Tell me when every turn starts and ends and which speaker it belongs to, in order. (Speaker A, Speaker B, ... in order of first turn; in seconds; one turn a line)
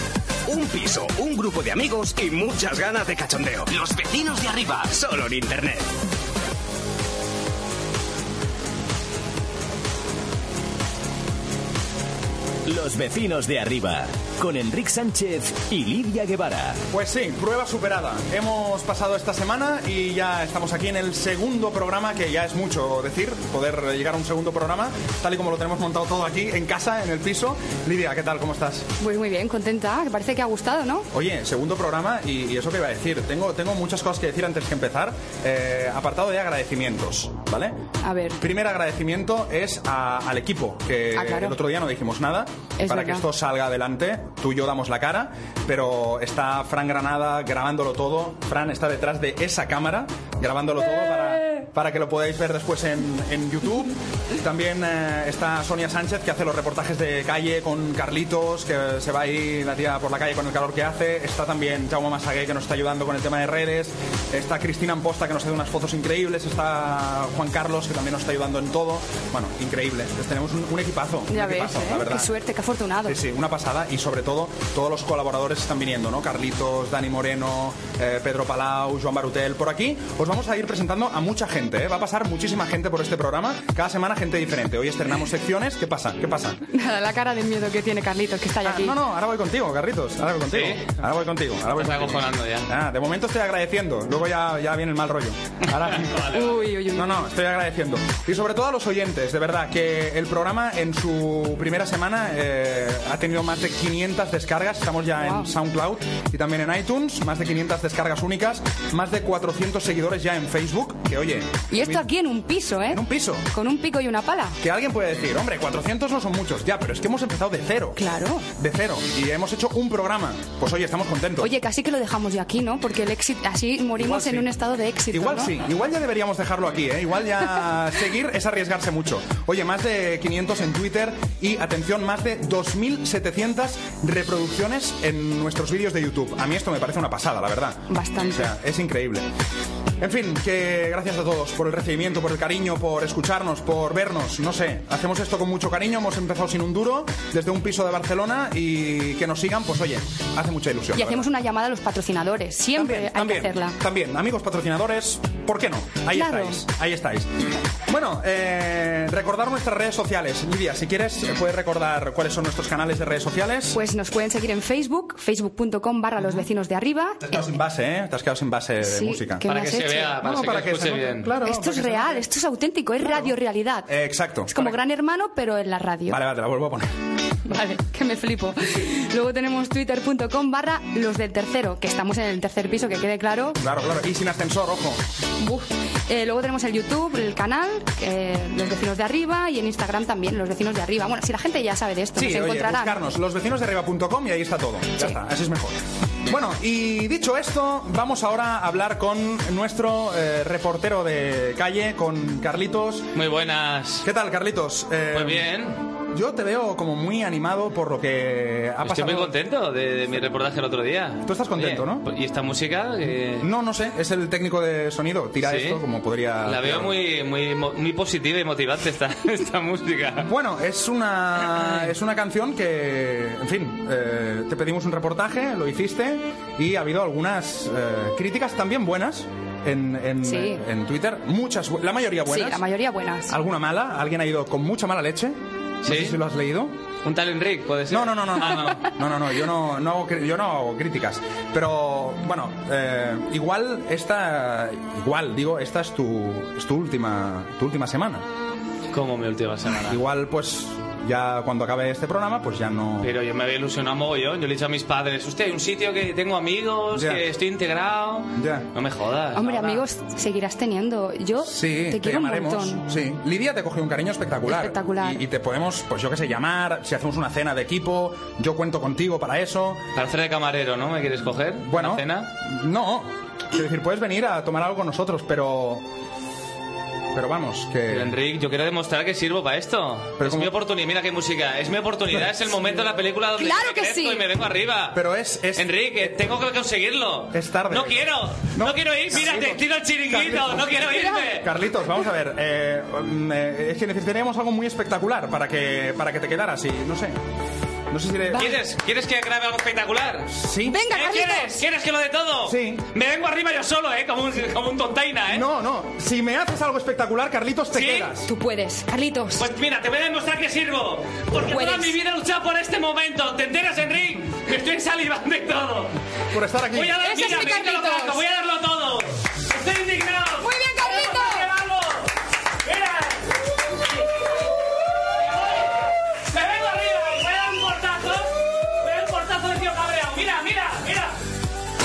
Speaker A: 0.5-5.9
Speaker B: 12.7-16.8
Speaker C: 16.9-28.9
Speaker D: 29.0-31.1
Speaker C: 31.1-37.8
Speaker D: 38.0-38.4
Speaker C: 38.4-72.3
Speaker D: 41.1-41.6
Speaker D: 42.8-43.3
Speaker D: 51.0-51.4
Speaker D: 71.3-73.2
Speaker C: 73.0-86.6
Speaker D: 86.7-89.0
Speaker C: 88.6-112.0
Speaker E: 90.5-90.9
Speaker E: 91.7-92.7
Speaker E: 95.9-96.6
Speaker D: 96.3-97.2
Speaker D: 105.2-105.5
Speaker D: 111.7-114.6
Speaker C: 112.9-113.5
Speaker C: 114.6-118.0
Speaker D: 118.0-118.5
Speaker C: 118.6-121.5
Speaker D: 121.4-125.5
Speaker C: 124.0-124.5
Speaker C: 125.1-139.3
Speaker D: 137.9-138.5
Speaker C: 140.0-151.2
Speaker D: 150.9-153.8
Speaker C: 152.8-157.3
Speaker D: 156.1-156.6
Speaker C: 157.9-163.8
Speaker D: 163.7-167.3
Speaker C: 166.2-166.4
Speaker C: 167.3-169.4
Speaker D: 168.8-170.2
Speaker E: 169.4-171.3
Speaker C: 170.2-172.3
Speaker D: 171.4-173.9
Speaker C: 173.9-174.8
Speaker D: 174.5-176.2
Speaker C: 176.1-176.9
Speaker D: 177.5-183.6
Speaker C: 183.6-185.0
Speaker D: 185.4-193.0
Speaker C: 192.2-203.1
Speaker E: 203.2-204.1
Speaker C: 204.0-205.5
Speaker E: 205.1-205.8
Speaker C: 206.1-209.3
Speaker E: 208.8-213.5
Speaker C: 211.2-212.1
Speaker C: 213.4-216.9
Speaker E: 215.4-215.8
Speaker E: 216.4-220.3
Speaker C: 220.2-232.6
Speaker D: 230.2-230.6
Speaker D: 232.3-233.3
Speaker C: 233.3-236.8
Speaker E: 235.8-236.2
Speaker E: 237.0-238.9
Speaker C: 237.9-248.2
Speaker E: 248.9-250.0
Speaker C: 249.9-253.1
Speaker E: 253.0-259.8
Speaker C: 256.9-257.2
Speaker C: 258.4-258.7
Speaker D: 259.4-262.8
Speaker C: 261.5-269.8
Speaker D: 264.5-265.2
Speaker E: 269.9-272.3
Speaker C: 271.6-275.8
Speaker C: 277.1-278.1
Speaker E: 277.9-285.0
Speaker C: 280.2-280.5
Speaker D: 283.4-284.2
Speaker C: 284.9-286.2
Speaker E: 285.6-291.5
Speaker C: 287.3-297.2
Speaker D: 290.9-291.3
Speaker C: 297.9-298.6
Speaker E: 298.3-300.3
Speaker C: 300.3-300.9
Speaker D: 300.7-301.6
Speaker E: 300.9-305.5
Speaker C: 302.5-302.8
Speaker C: 305.3-308.3
Speaker E: 307.7-308.1
Speaker D: 308.2-309.5
Speaker E: 309.4-315.9
Speaker D: 311.4-311.9
Speaker C: 316.3-317.0
Speaker E: 316.7-322.1
Speaker D: 317.0-318.2
Speaker D: 320.4-321.5
Speaker E: 322.6-323.3
Speaker E: 325.0-331.2